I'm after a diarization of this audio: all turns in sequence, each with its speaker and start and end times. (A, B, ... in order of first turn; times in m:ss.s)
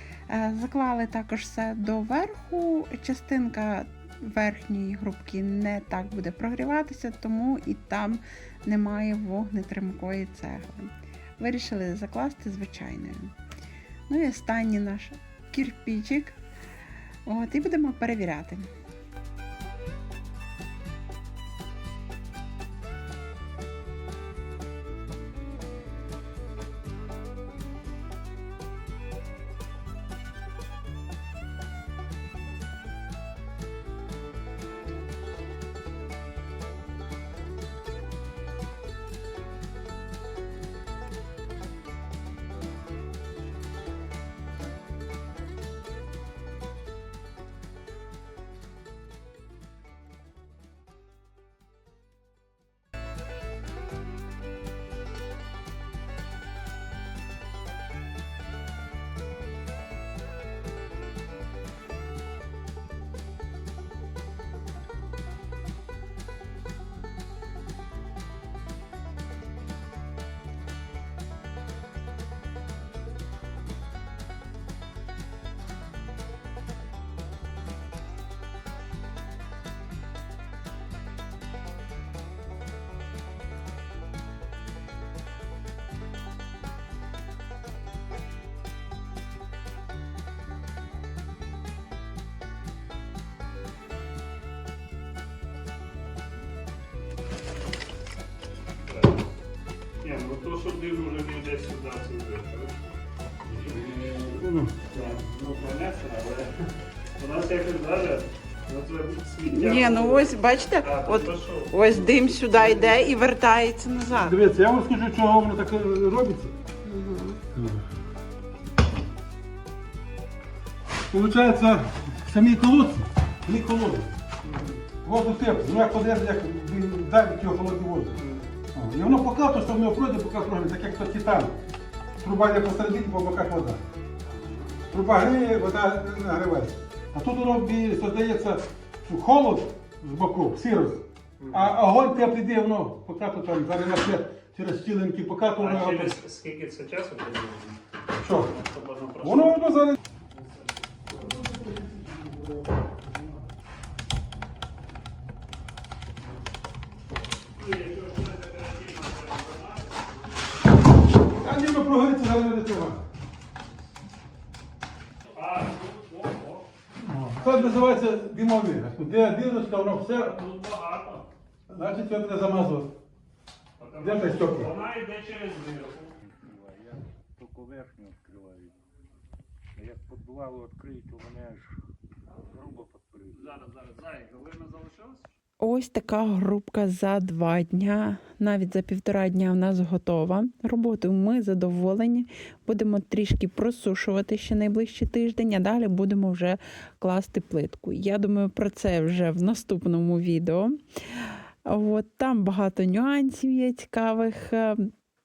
0:00.3-0:13.4 A
0:14.1-0:16.4 A
0:17.3-0:18.7 A
1:38.9-1:39.3 B
1:40.0-1:42.9 B
1:43.5-1:46.7 B
1:44.2-1:44.8 C
1:47.2-1:51.9 B
1:49.4-1:54.4 A
1:52.6-1:53.0 B
1:54.2-1:56.5 C
1:56.8-1:57.4 A
1:57.6-1:57.8 C
2:01.1-2:04.2 C
2:04.4-2:04.8 B
2:04.9-2:08.2 C
2:08.2-2:08.5 B
2:08.7-2:11.6 C
2:12.2-2:13.8 C
2:14.3-2:14.8 B
2:14.9-2:26.2 C
2:21.4-2:21.7 B
2:25.6-2:27.8 B
2:28.2-2:28.6 C
2:28.4-2:29.7 B
2:29.2-2:30.0 C
2:30.3-2:31.4 B
2:31.2-2:32.9 C
2:37.6-2:40.4 B
2:41.3-2:43.0 C
2:45.3-2:46.7 B
2:47.0-2:50.4 C
2:47.4-2:47.8 B
2:50.1-2:51.3 B
2:51.7-2:52.9 C
2:53.8-2:56.2 B
2:54.0-2:54.7 C
2:56.3-2:58.8 D
2:59.8-3:01.8 D
3:02.5-3:03.4 D
3:03.3-3:05.3 B
3:05.6-3:24.9 A